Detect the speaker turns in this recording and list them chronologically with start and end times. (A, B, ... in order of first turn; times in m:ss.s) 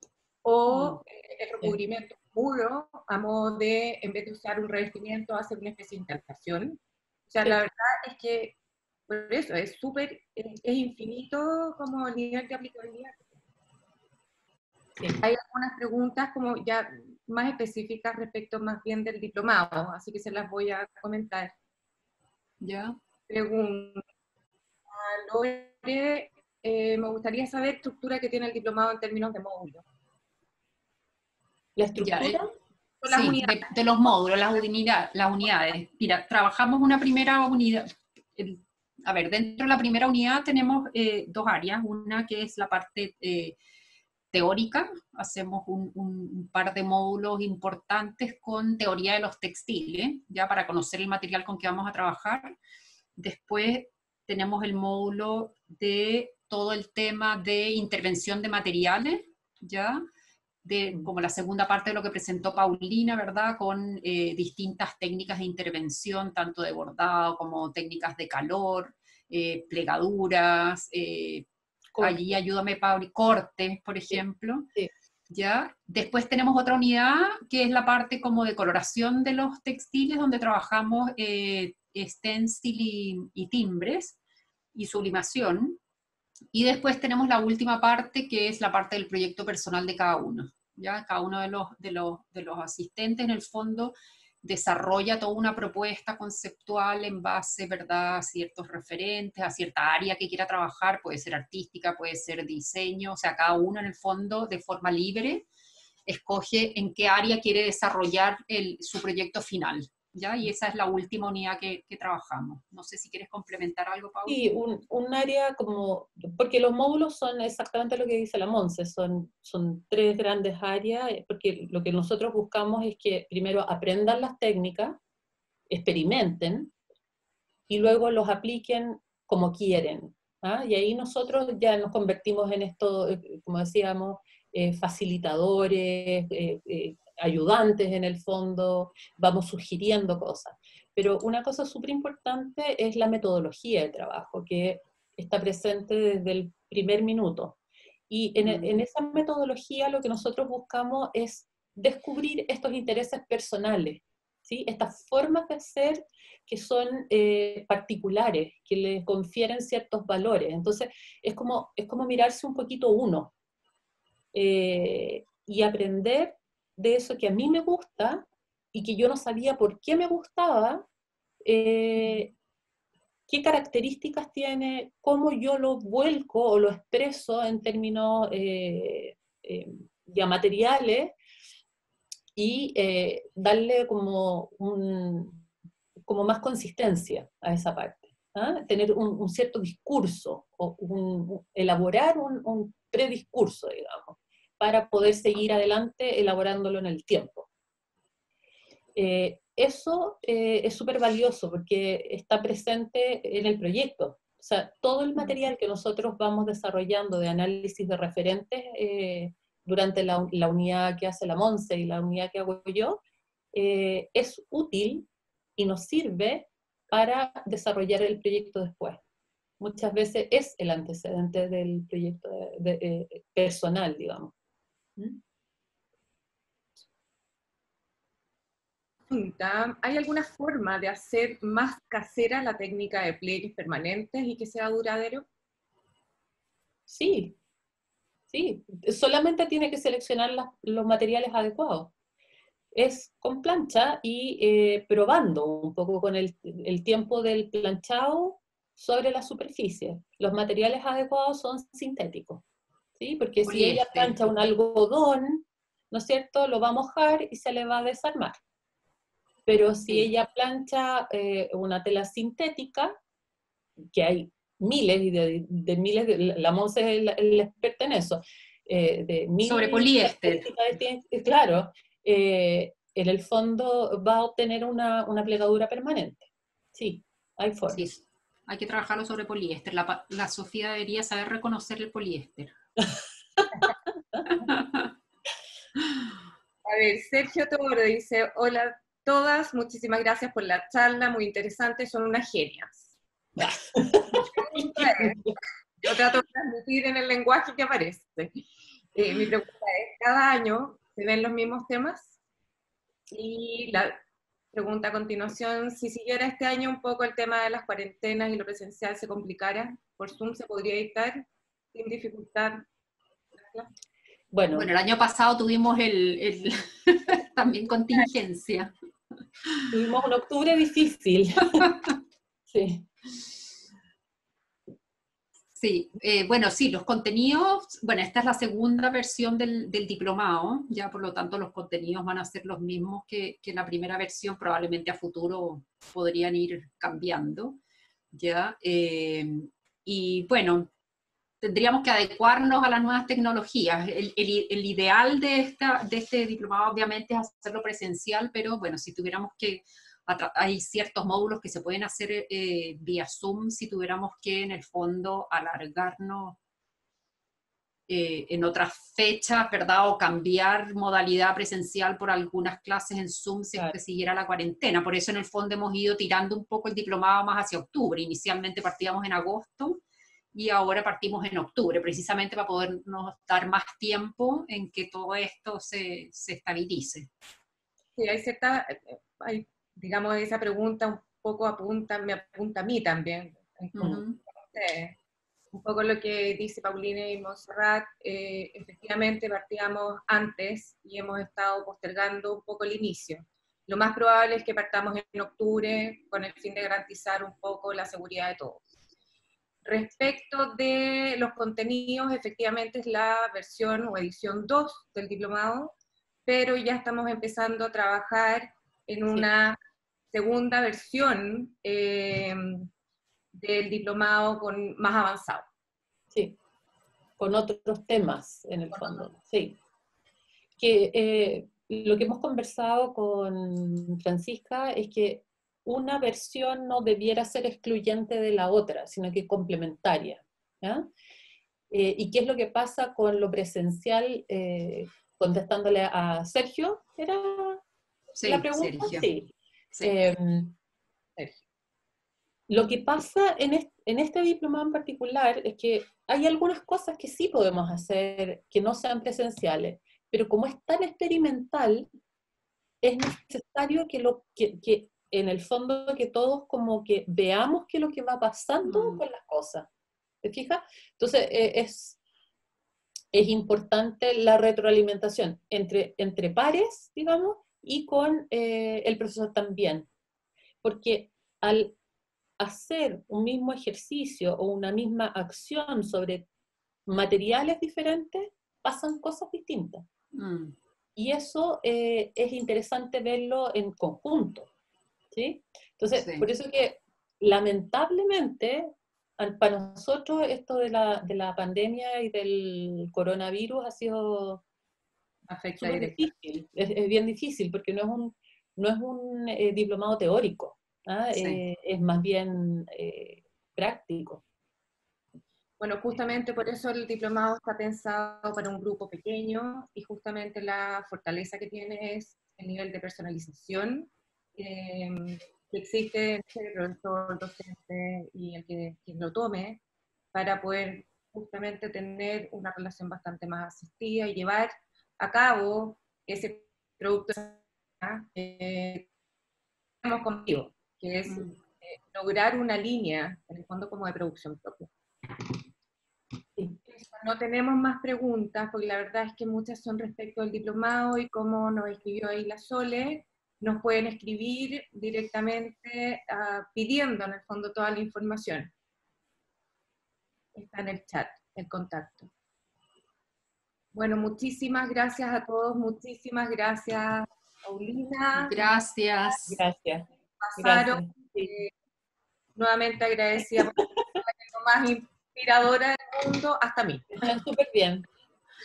0:00.4-0:06.8 A
0:00.7-0:01.0 B
0:07.3-0:08.6 A
0:09.1-0:13.2 A
0:15.1-0:21.5 A
0:22.6-0:23.0 C
0:23.3-0:24.0 A
0:24.9-0:29.8 A
0:31.8-0:32.5 B
0:32.0-0:32.4 C
0:33.0-0:33.6 A
0:33.1-0:43.6 C
0:44.3-0:52.5 C
0:53.2-1:00.0 C
1:00.6-1:11.5 C
1:12.0-1:12.2 B
1:12.0-1:14.7 C
1:15.3-1:24.2 C
1:24.7-1:25.8 C
1:26.5-1:45.4 C
1:46.0-1:54.4 C
1:54.3-2:05.0 B
2:05.7-2:06.7 B
2:07.7-2:27.6 B
2:28.1-2:43.3 B
2:28.4-2:28.7 C
2:44.3-2:50.8 B
2:51.4-2:52.3 B
2:53.3-3:01.1 B
3:02.4-3:05.4 B
3:06.1-3:17.5 B
3:19.0-3:33.0 B
3:33.5-3:39.0 B
3:39.6-3:44.3 B
3:49.1-3:55.2 A
3:56.9-3:57.4 B
3:58.3-4:01.9 B
4:02.7-4:12.4 B
4:13.0-4:18.4 B
4:13.4-4:14.2 C
4:19.4-4:22.9 B
4:23.9-4:37.9 B
4:29.4-4:30.5 C
4:37.7-4:42.5 C
4:43.6-4:44.4 B
4:44.4-4:44.8 C
4:46.6-4:52.8 A
4:53.4-4:55.3 B
4:54.2-4:55.3 A
4:55.8-5:02.1 A
5:03.1-5:04.0 A
5:04.5-5:12.7 A
5:13.4-5:13.7 A
5:14.3-5:14.7 B
5:14.5-5:18.7 C
5:19.7-5:21.7 B
5:22.5-5:22.9 B
5:25.6-5:37.6 C
5:38.1-5:40.7 C
5:41.4-5:56.4 C
5:57.9-6:09.8 C
6:10.3-6:17.1 C
6:18.0-6:25.0 A
6:23.8-6:24.2 C
6:25.5-6:38.6 A
6:39.6-6:49.6 A
6:50.1-6:52.7 A
6:53.3-6:55.5 A
6:57.2-6:59.6 B
6:58.7-6:59.1 A
7:00.6-7:10.9 B
7:11.7-7:17.6 B
7:18.1-7:19.1 C
7:18.2-7:20.5 B
7:19.7-7:20.1 C
7:22.5-7:31.8 B
7:32.8-7:39.7 B
7:38.6-7:39.0 C
7:40.2-7:42.0 B
7:43.1-7:49.9 B
7:50.6-7:51.8 B
7:52.4-7:56.3 B
7:56.9-7:59.8 B
8:00.1-8:00.5 C
8:01.0-8:04.5 B
8:05.1-8:14.4 B
8:06.0-8:06.3 C
8:15.3-8:15.9 A
8:15.6-8:24.2 B
8:21.1-8:21.4 C
8:25.6-8:39.6 A
8:40.1-8:48.9 A
8:49.8-8:55.2 A
8:56.7-9:08.5 A
9:10.3-9:12.1 A
9:13.7-9:18.4 A
9:18.3-9:19.3 C
9:19.3-9:19.8 B
9:20.2-9:21.5 A
9:20.4-9:21.3 B
9:22.4-9:27.0 A
9:26.9-9:27.8 B